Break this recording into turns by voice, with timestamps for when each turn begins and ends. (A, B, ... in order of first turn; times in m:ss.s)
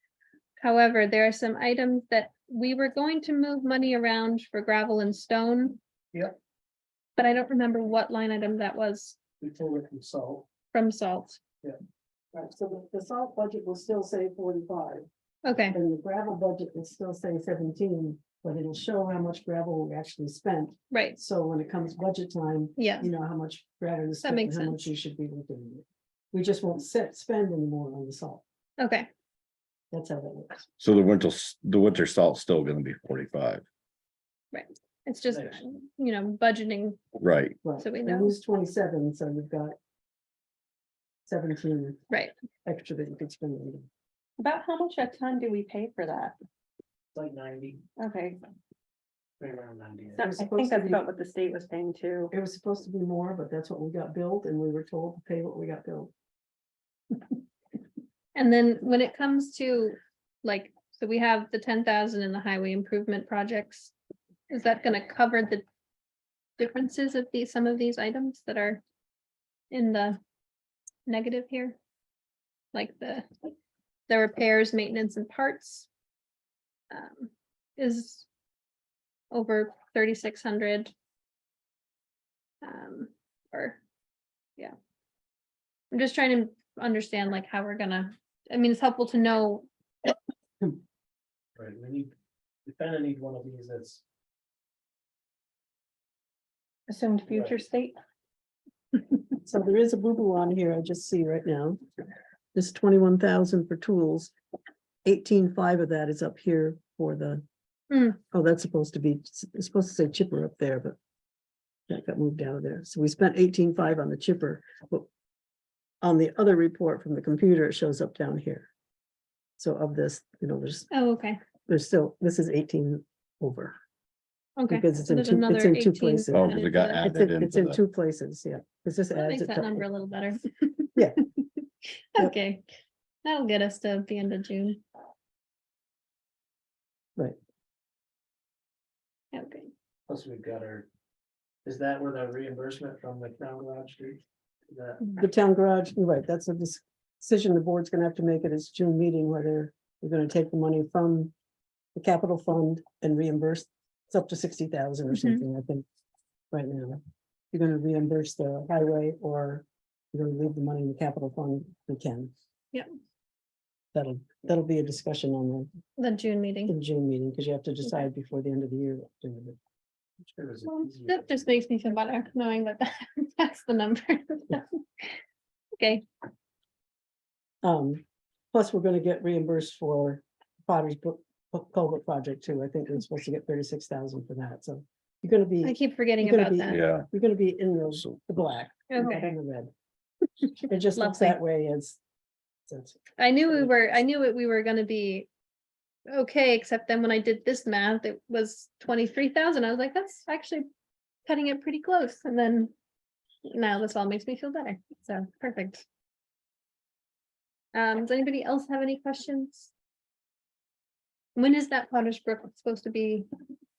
0:00.6-0:05.8 A
0:07.2-0:09.2 A
0:09.4-0:10.4 B
0:10.7-0:11.4 A
0:12.3-0:15.0 C
0:15.4-0:15.8 A
0:15.7-0:28.4 C
0:20.9-0:21.2 A
0:22.8-0:23.1 A
0:24.2-0:24.9 A
0:28.8-0:29.1 A
0:29.9-0:30.6 C
0:30.8-0:33.6 D
0:34.5-0:37.0 A
0:35.3-0:35.6 B
0:37.2-0:37.6 D
0:37.6-0:39.8 C
0:37.8-0:38.3 A
0:41.3-0:42.0 C
0:42.6-0:43.9 C
0:44.4-0:46.3 E
0:47.1-0:47.8 B
0:48.0-0:48.4 E
0:49.4-0:50.2 B
0:50.1-0:52.3 E
0:50.2-0:51.0 C
0:52.3-0:56.1 C
0:58.3-1:03.9 A
1:04.5-1:05.6 A
1:06.6-1:08.8 A
1:09.7-1:10.2 A
1:11.1-1:11.8 A
1:12.7-1:13.5 A
1:14.1-1:15.9 A
1:16.9-1:18.3 A
1:19.3-1:20.9 A
1:22.6-1:23.8 A
1:25.9-1:29.7 A
1:31.6-1:32.1 B
1:32.6-1:34.0 B
1:36.9-1:38.0 E
1:37.3-1:37.6 B
1:39.4-1:41.8 C
1:42.5-1:44.3 C
1:45.0-1:47.4 C
1:47.9-1:48.2 A
1:48.3-1:51.0 C
1:51.9-1:55.1 C
1:56.0-1:58.7 C
1:59.6-2:00.9 C
2:00.9-2:01.4 A
2:01.7-2:03.7 C
2:04.6-2:07.1 A
2:04.7-2:06.5 C
2:06.3-2:07.8 D
2:07.0-2:09.8 C
2:09.1-2:11.0 A
2:11.0-2:11.2 C
2:12.1-2:12.7 A
2:13.2-2:14.8 A
2:19.3-2:19.7 A
2:20.1-2:20.9 B
2:21.6-2:25.1 B
2:25.2-2:31.3 C
2:31.9-2:35.8 C
2:35.1-2:35.4 A
2:36.5-2:37.0 C
2:37.5-2:42.3 C
2:43.9-2:45.7 C
2:46.0-2:46.7 A
2:46.7-2:49.6 C
2:50.2-2:51.3 B
2:50.6-2:55.2 A
2:55.8-2:56.0 A
2:57.6-3:09.7 C
3:05.6-3:06.8 A
3:06.7-3:07.1 D
3:08.9-3:09.3 A
3:10.6-3:12.0 C
3:11.0-3:11.4 A
3:12.7-3:13.7 C
3:13.2-3:15.3 A
3:16.1-3:20.6 A
3:21.2-3:22.7 A
3:23.4-3:25.8 A
3:27.7-3:29.7 A
3:31.4-3:33.3 A